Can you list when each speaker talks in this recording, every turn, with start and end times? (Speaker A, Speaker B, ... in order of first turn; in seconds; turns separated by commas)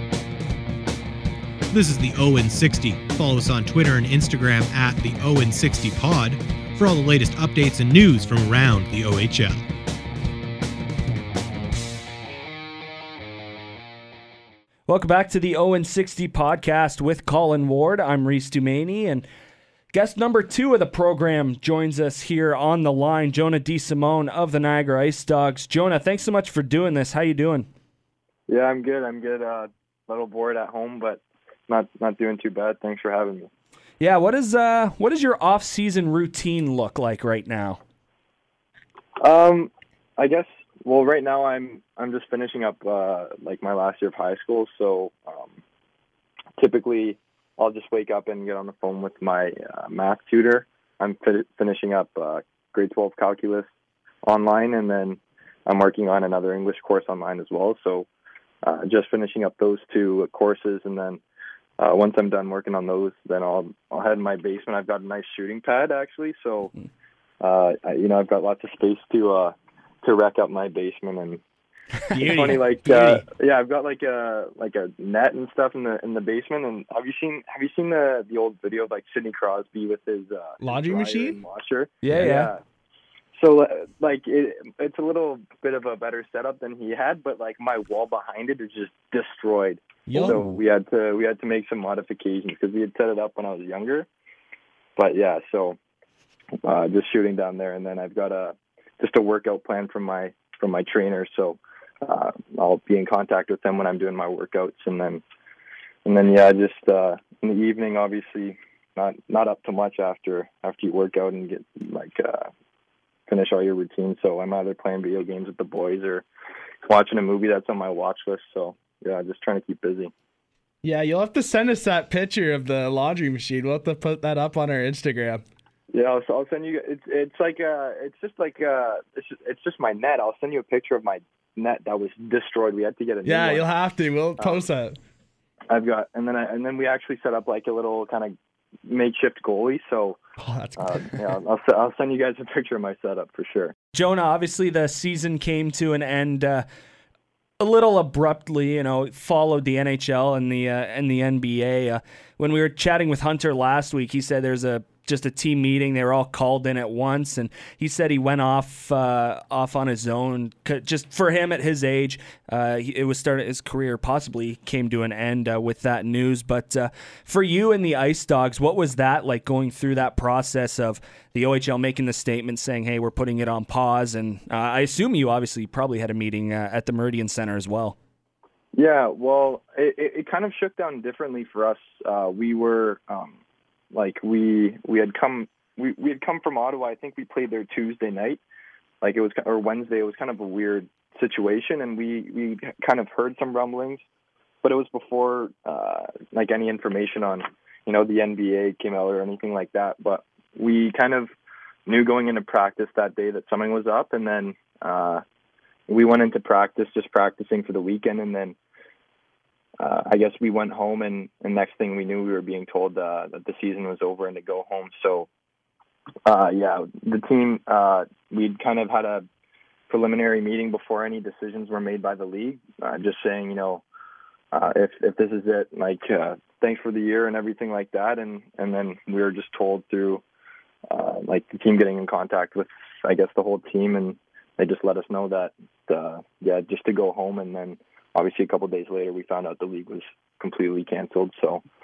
Speaker A: 1.7-9.6, Speaker B: 14.9-19.2, Speaker B: 19.9-27.7, Speaker C: 28.5-33.5, Speaker B: 34.0-37.8, Speaker C: 39.2-45.6, Speaker C: 46.6-53.7, Speaker C: 54.2-58.1, Speaker C: 58.6-61.2, Speaker C: 61.8-66.7, Speaker C: 67.4-71.4, Speaker D: 72.1-73.2, Speaker C: 72.2-82.6, Speaker D: 80.6-81.4, Speaker B: 82.0-82.5, Speaker C: 83.4-94.1, Speaker D: 90.1-90.5, Speaker B: 90.2-90.5, Speaker C: 95.0-95.8, Speaker C: 96.6-105.2, Speaker C: 106.1-112.5, Speaker C: 113.3-116.3, Speaker C: 116.8-120.1, Speaker D: 120.8-125.4, Speaker C: 125.9-133.7, Speaker D: 133.2-135.0, Speaker C: 135.7-138.3, Speaker C: 138.9-140.2, Speaker D: 140.4-141.3, Speaker C: 140.8-143.7, Speaker B: 143.9-146.7, Speaker B: 147.6-178.0, Speaker C: 178.7-183.4, Speaker C: 183.9-188.4, Speaker C: 189.0-194.0, Speaker C: 194.6-201.3, Speaker C: 201.9-205.2, Speaker C: 205.9-208.6, Speaker C: 209.8-215.3, Speaker C: 216.3-219.3, Speaker C: 219.9-223.8, Speaker C: 224.5-230.2, Speaker C: 230.9-241.6